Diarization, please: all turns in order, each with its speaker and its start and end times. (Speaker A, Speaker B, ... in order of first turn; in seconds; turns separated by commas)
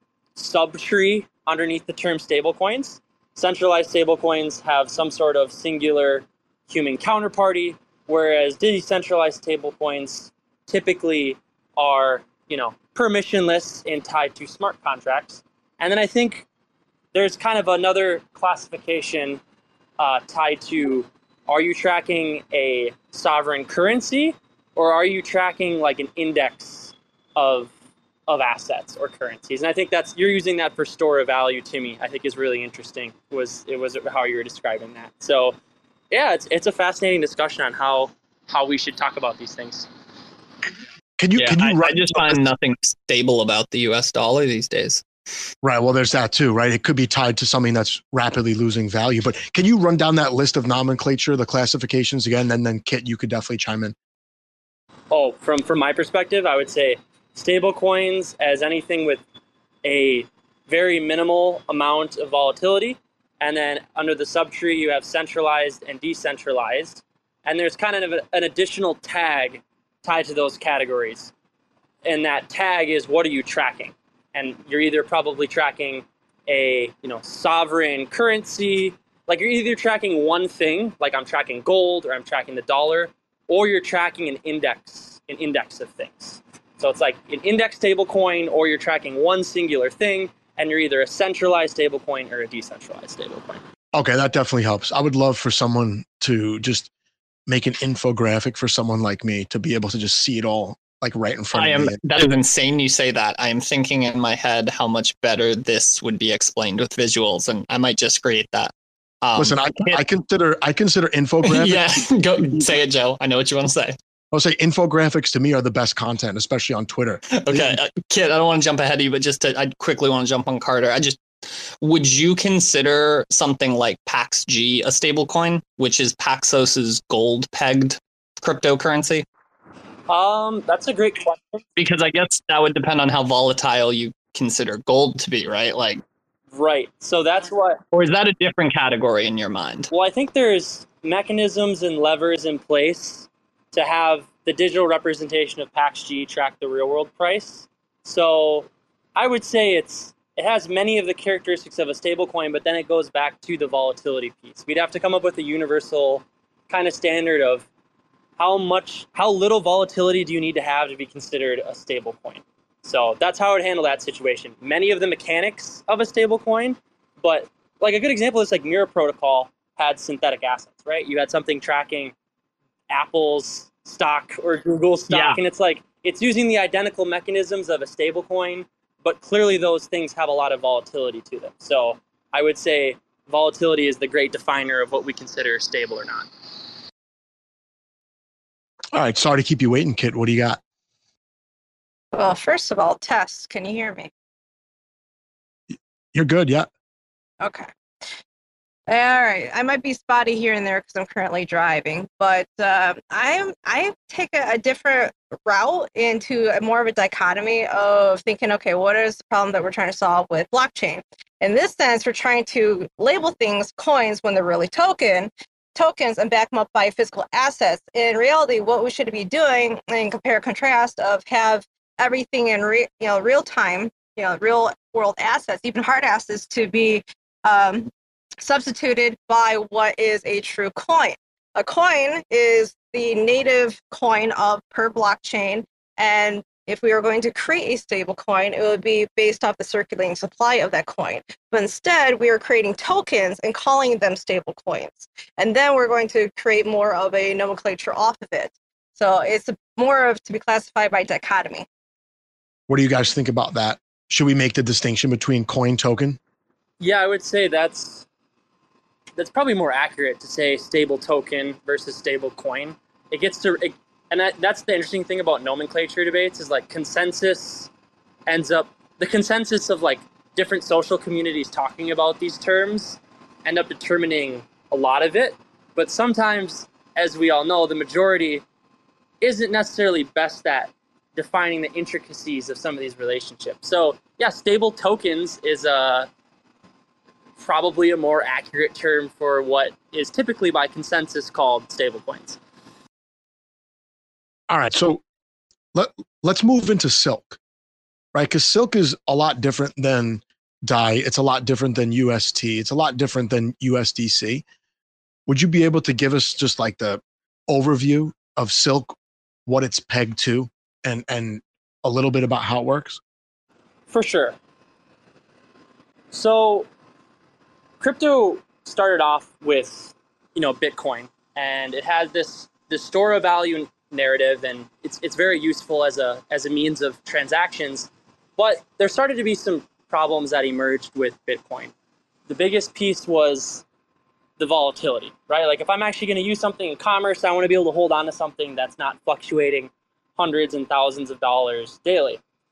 Speaker A: 0.3-16.4, Speaker A: 17.1-19.4, Speaker A: 20.0-27.7, Speaker A: 28.3-35.5, Speaker A: 36.1-39.9, Speaker B: 41.2-42.4, Speaker C: 41.4-45.0, Speaker B: 45.6-53.9, Speaker A: 55.1-59.2, Speaker A: 59.8-71.3, Speaker A: 72.0-93.6, Speaker B: 93.9-96.9, Speaker B: 97.5-102.0, Speaker C: 101.5-110.0, Speaker B: 109.3-111.8, Speaker C: 111.4-114.0, Speaker B: 112.4-112.7, Speaker B: 114.3-117.8, Speaker C: 117.4-121.2, Speaker C: 121.8-129.2, Speaker A: 130.1-131.6, Speaker C: 131.8-136.0, Speaker A: 136.5-137.8, Speaker C: 137.9-139.9, Speaker A: 139.9-157.7, Speaker A: 158.4-172.1, Speaker A: 172.9-186.3, Speaker C: 175.1-175.4, Speaker B: 188.9-190.6, Speaker D: 192.1-194.1, Speaker B: 196.1-196.7, Speaker D: 197.4-197.7, Speaker D: 198.9-251.7, Speaker B: 252.7-256.2, Speaker A: 256.8-258.1, Speaker A: 259.2-267.7, Speaker A: 268.3-278.4, Speaker A: 279.2-286.1, Speaker A: 287.4-292.4, Speaker B: 294.5-295.0, Speaker B: 295.7-297.4, Speaker B: 298.1-304.4, Speaker B: 305.3-313.0, Speaker A: 313.9-314.4, Speaker A: 316.1-316.7, Speaker A: 317.8-331.7, Speaker A: 332.3-333.6, Speaker A: 334.4-342.2